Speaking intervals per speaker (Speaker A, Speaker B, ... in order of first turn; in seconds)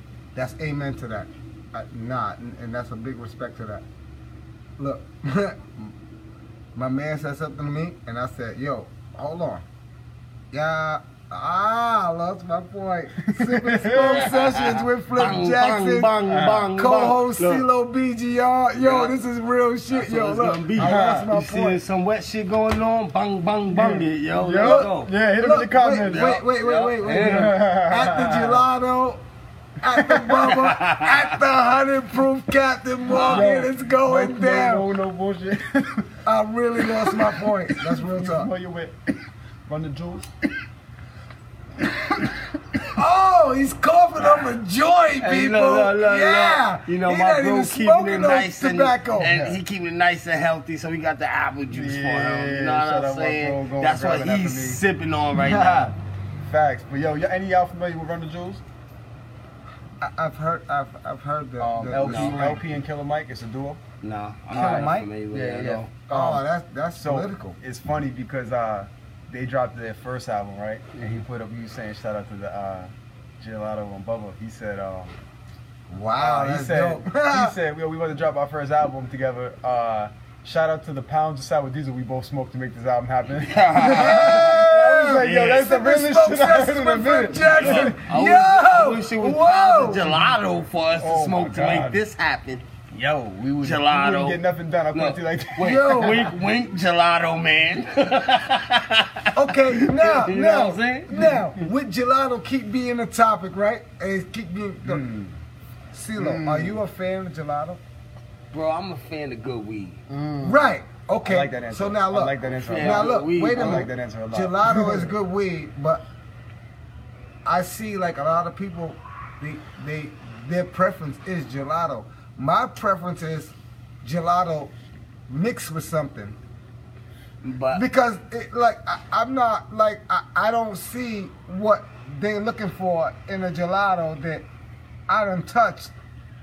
Speaker A: 0.3-3.8, 4.8-5.9, 6.8-9.7, 10.5-21.8, 24.6-29.2, 29.8-34.9, 36.2-38.5, 43.0-49.4, 60.0-62.8, 64.5-65.1, 66.1-67.6, 75.9-77.6, 83.9-90.2, 95.6-96.3, 99.3-105.1, 105.9-107.8, 110.4-116.0, 117.5-124.7, 125.3-126.4, 127.7-134.5, 135.1-135.9
Speaker B: 13.2-14.3, 16.3-16.6, 20.8-21.3, 23.7-26.4, 27.2-28.6, 33.1-36.1, 36.9-39.0, 39.7-40.3, 42.0-42.4, 49.2-49.6, 51.7-54.8, 55.3-58.6, 61.6-63.8, 64.5-66.4, 67.0-75.1, 76.2-88.0, 91.0-92.0, 92.9-96.3, 104.9-105.4, 106.2-106.8, 110.1-110.6, 111.2-115.1
Speaker C: 13.9-17.7, 18.8-19.2, 19.9-25.1, 26.0-27.6, 30.4-31.3, 33.1-33.5, 45.2-55.9, 62.0-62.4, 64.0-65.9, 71.0-71.2, 83.4-84.6, 87.4-92.7, 93.6-94.4, 94.9-101.4, 108.5-110.0, 112.6-113.9, 127.4-127.8